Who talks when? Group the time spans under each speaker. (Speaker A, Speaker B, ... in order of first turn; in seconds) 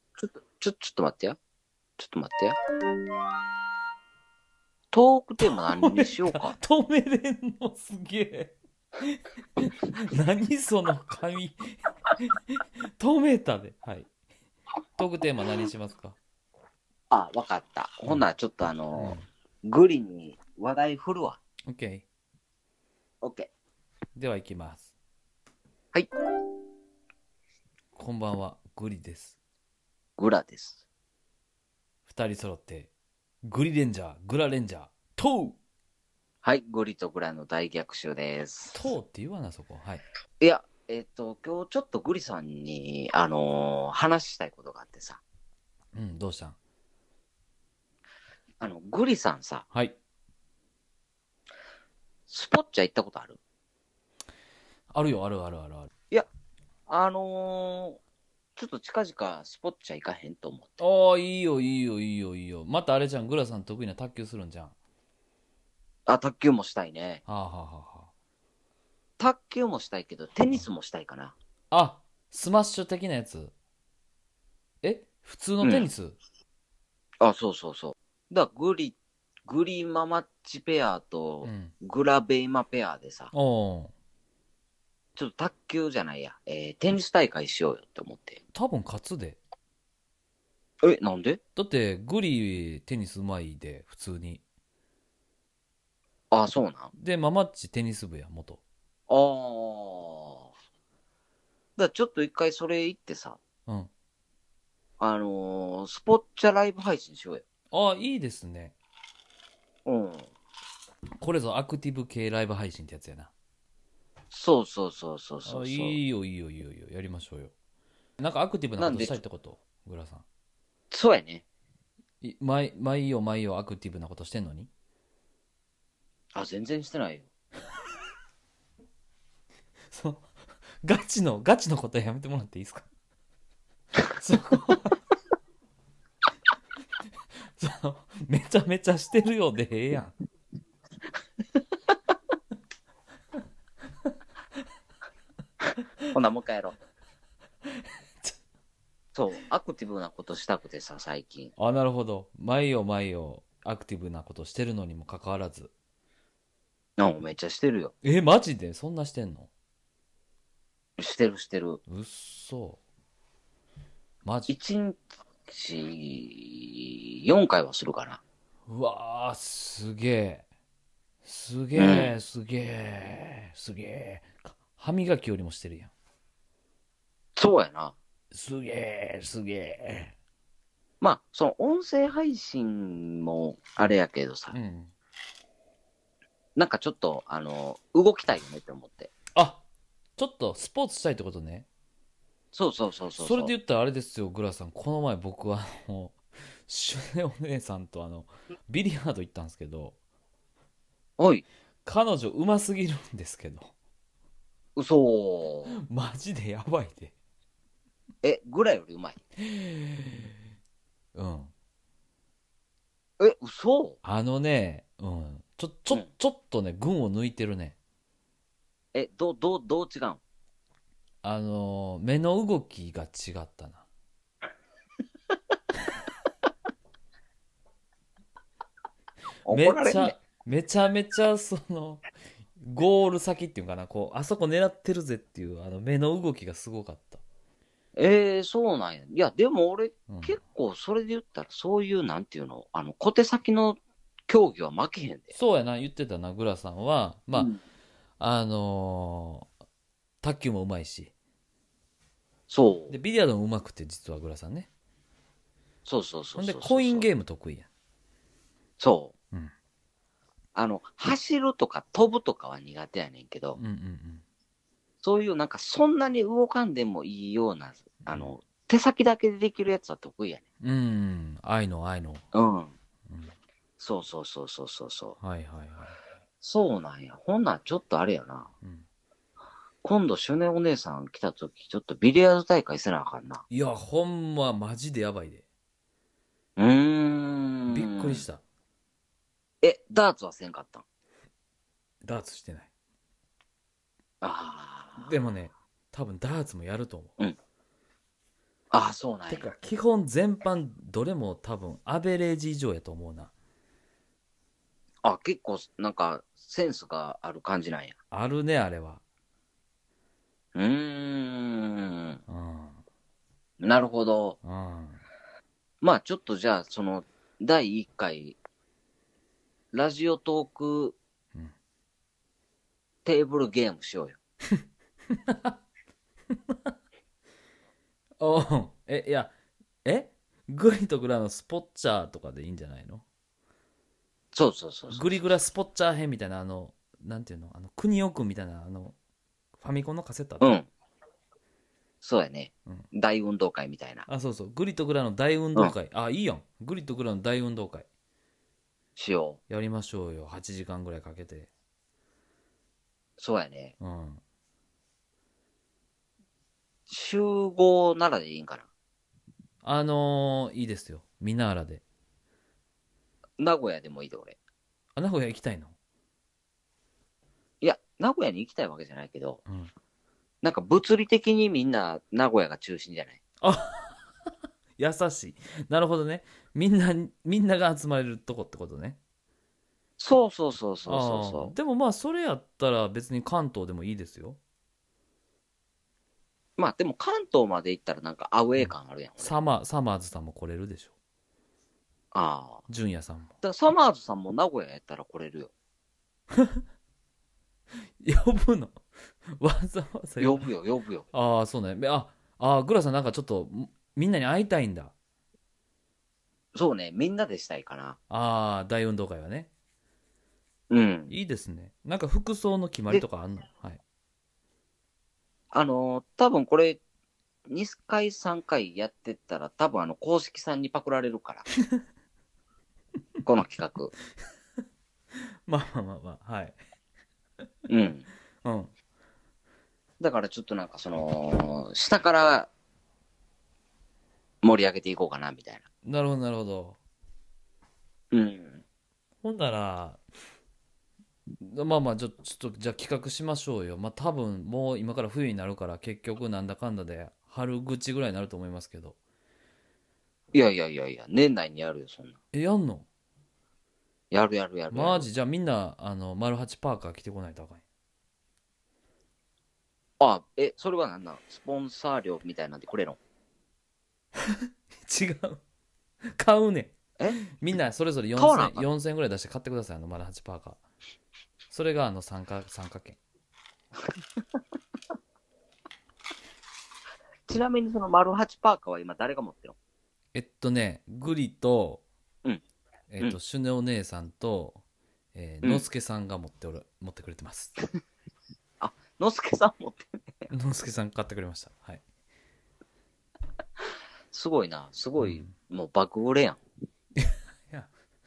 Speaker A: 0.2-1.4, 2.0-2.5, 4.9-6.5, 17.1-21.4, 23.2-23.5, 30.2-30.8, 36.4-38.8, 40.4-45.2, 48.6-49.7, 52.3-53.4, 56.9-58.0, 58.6-60.8, 66.1-67.2, 69.2-71.3, 75.6-75.9, 77.2-79.0, 79.5-83.3, 85.2-88.4, 90.8-91.4, 96.3-96.9, 99.1-100.5, 101.8-103.4, 105.0-107.4, 109.8-110.3, 114.3-116.0, 118.8-119.2, 120.9-121.4, 126.3-127.3, 146.1-146.7, 149.2-151.5, 157.0-157.9, 161.0-161.8, 164.5-168.2, 171.8-172.2, 177.4-177.9, 181.0-184.6, 186.6-189.1, 192.5-193.5, 201.2-201.4, 204.8-205.8, 208.2-209.2, 213.2-214.0, 218.9-220.2, 229.4-230.2, 238.0-245.3, 252.5-252.9, 255.9-257.1, 258.8-259.1, 260.6-263.6, 265.0-270.4, 272.3-272.7, 273.8-275.2, 276.4-278.5, 279.8-283.4, 286.6-288.2, 289.6-290.8, 294.2-295.1, 298.7-299.5, 305.0-308.0, 310.6-312.2, 313.6-314.4, 315.8-318.4, 319.7-321.0, 323.1-324.2, 334.3-335.2, 340.4-340.7, 342.0-344.1, 349.0-349.4, 353.2-353.7, 356.9-358.7, 363.4-364.4, 367.6-369.4, 370.4-373.2, 380.0-381.5, 386.6-389.3, 392.1-392.6, 393.4-395.5, 400.2-401.1, 406.6-408.0, 410.7-411.1, 415.5-416.8, 417.5-421.5, 423.2-423.9, 427.7-428.1, 430.0-432.5, 434.4-435.7, 438.1-438.6, 450.3-452.2, 454.1-455.1, 460.0-463.0, 468.2-468.7, 477.3-479.6, 488.6-490.3, 494.1-496.4
Speaker B: 5.5-14.1, 15.0-16.2, 19.0-19.2, 21.7-22.1, 24.2-24.9, 27.9-29.4, 32.1-32.9, 33.5-35.6, 38.7-40.0, 45.9-46.6, 49.7-50.0, 54.9-55.9, 60.8-64.7, 67.3-68.1, 71.7-73.5, 74.8-76.2, 81.4-81.7, 83.3-83.9, 88.5-89.4, 91.6-94.4, 97.0-98.6, 107.7-108.7, 111.2-113.3, 115.5-117.5, 118.2-120.2, 122.2-124.7, 129.9-130.3, 130.8-132.9, 134.1-135.0, 137.6-140.2, 147.8-148.3, 151.6-155.7, 158.0-159.5, 161.9-162.8, 164.2-164.6, 168.7-170.4, 171.2-175.9, 178.3-180.2, 184.5-184.9, 189.3-189.6, 190.2-191.7, 193.2-200.0, 201.8-203.7, 205.8-207.1, 209.4-210.3, 211.2-211.5, 214.0-217.8, 221.2-223.8, 229.5-232.0, 232.6-237.2, 240.1-240.4, 245.3-247.6, 248.2-249.4, 250.2-251.1, 252.9-254.7, 256.4-257.7, 263.6-264.2, 268.1-268.3, 270.6-272.2, 275.2-276.0, 283.5-285.4, 287.7-288.4, 292.0-292.7, 295.0-297.1, 299.3-303.3, 308.1-309.0, 312.3-312.8, 314.4-315.0, 325.1-325.6, 328.2-329.3, 329.9-333.0, 334.9-339.0, 339.6-340.5, 344.1-347.9, 349.5-351.5, 353.8-354.2, 359.6-361.8, 365.0-365.7, 369.5-369.7, 373.4-374.0, 374.8-379.0, 380.9-384.4, 388.6-390.9, 392.7-393.4, 398.0-400.5, 401.1-404.9, 408.1-409.5, 411.1-413.8, 425.5-426.6, 428.4-428.7, 435.9-436.8, 439.2-440.0, 441.4-449.0, 452.3-452.9, 454.7-457.6, 464.8-465.4, 466.1-470.6, 471.5-473.0, 480.1-481.8, 482.9-484.6, 485.1-487.6, 490.3-491.8, 495.0-495.3, 497.0-497.7